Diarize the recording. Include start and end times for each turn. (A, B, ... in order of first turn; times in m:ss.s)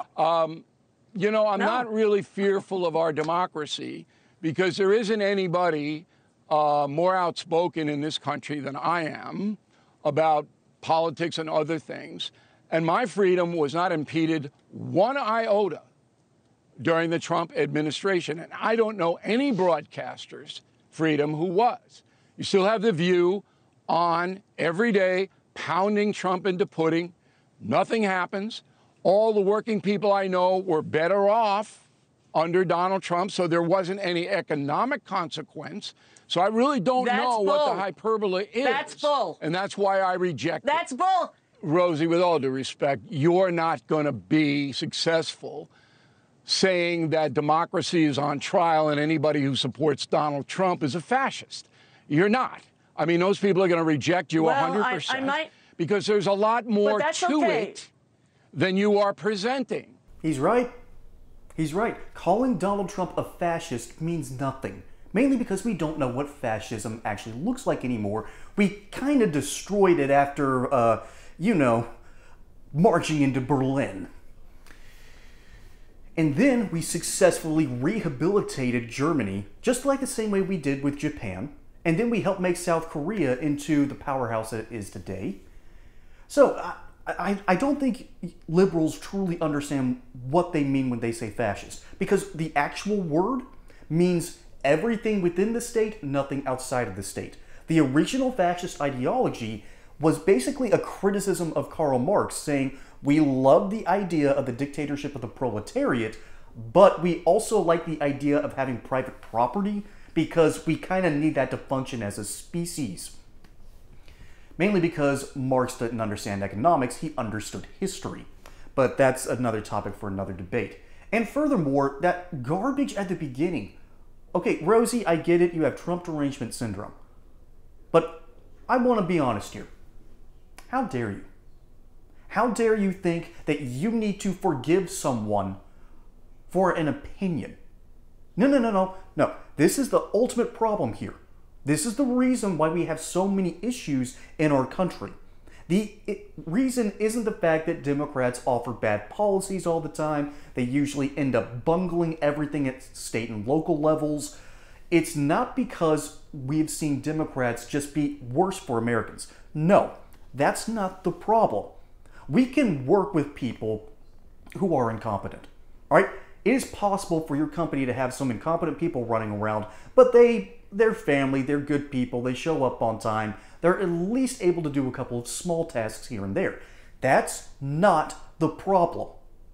0:00.2-0:15.8 A
0:01.6-0:01.9 B
0:16.8-0:40.8 A
0:37.0-0:37.9 B
0:38.6-0:39.4 B
0:40.6-0:41.4 B
0:41.5-0:45.7 A
0:46.5-0:57.9 A
0:54.4-0:55.5 B
0:56.8-0:57.8 B
0:58.5-1:00.0 A
1:00.2-1:00.7 C
1:01.6-1:11.9 C
1:12.7-1:14.1 C
1:16.2-1:25.4 C
1:26.3-1:53.2 C
1:54.6-2:03.8 C
2:04.3-2:07.0 C
2:07.9-2:09.7 C
2:10.7-2:11.3 C
2:12.3-2:15.6 C
2:16.5-2:17.6 C
2:18.4-2:25.2 C
2:25.7-2:34.4 C
2:34.9-2:41.8 C
2:42.3-2:43.9 C
2:44.6-2:59.2 C